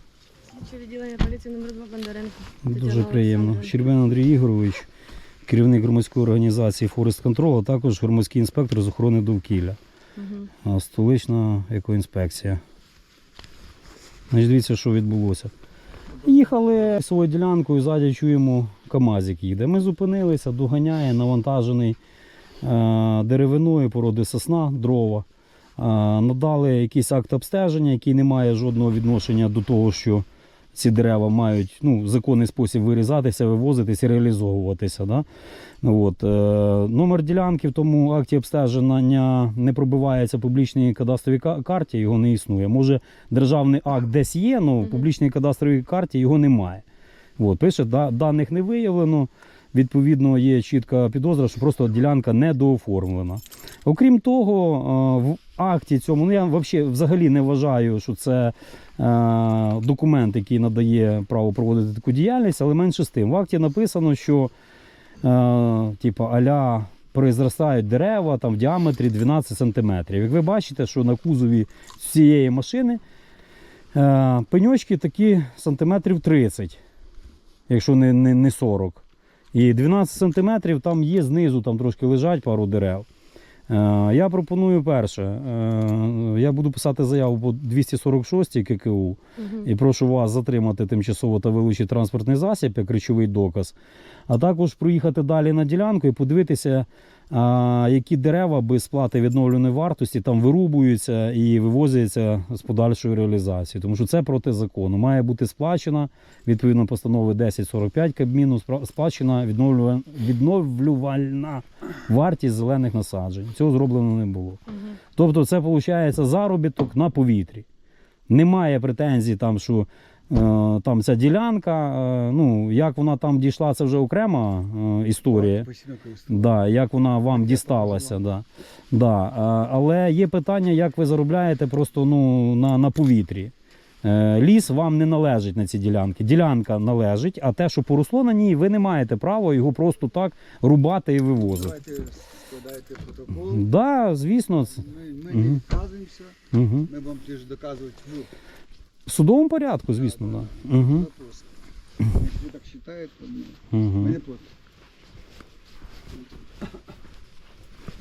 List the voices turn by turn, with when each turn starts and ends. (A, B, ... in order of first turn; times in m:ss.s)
0:00.5-0:03.9 A
0:02.6-0:04.9 B
0:05.5-0:09.8 B
0:10.2-0:10.5 A
0:10.6-0:12.6 B
0:14.3-0:15.5 B
0:16.2-0:22.0 B
0:22.6-0:25.3 B
0:25.8-0:35.3 B
0:35.8-0:46.8 B
0:47.4-1:04.5 B
1:05.2-1:13.0 B
1:13.9-1:16.8 B
1:17.7-1:23.1 B
1:23.7-1:33.8 B
1:29.4-1:29.7 A
1:34.3-1:54.6 B
1:55.1-1:57.6 B
1:58.3-2:05.7 B
2:05.3-2:06.6 C
2:06.3-2:21.8 B
2:07.3-2:08.2 C
2:21.4-2:23.7 C
2:23.5-2:24.8 B
2:24.7-2:26.4 C
2:25.3-2:25.6 B
2:26.5-2:26.9 B
2:26.9-2:28.3 C
2:29.1-2:31.1 B
2:29.9-2:31.5 C
2:32.1-2:34.5 C
2:33.7-2:34.2 B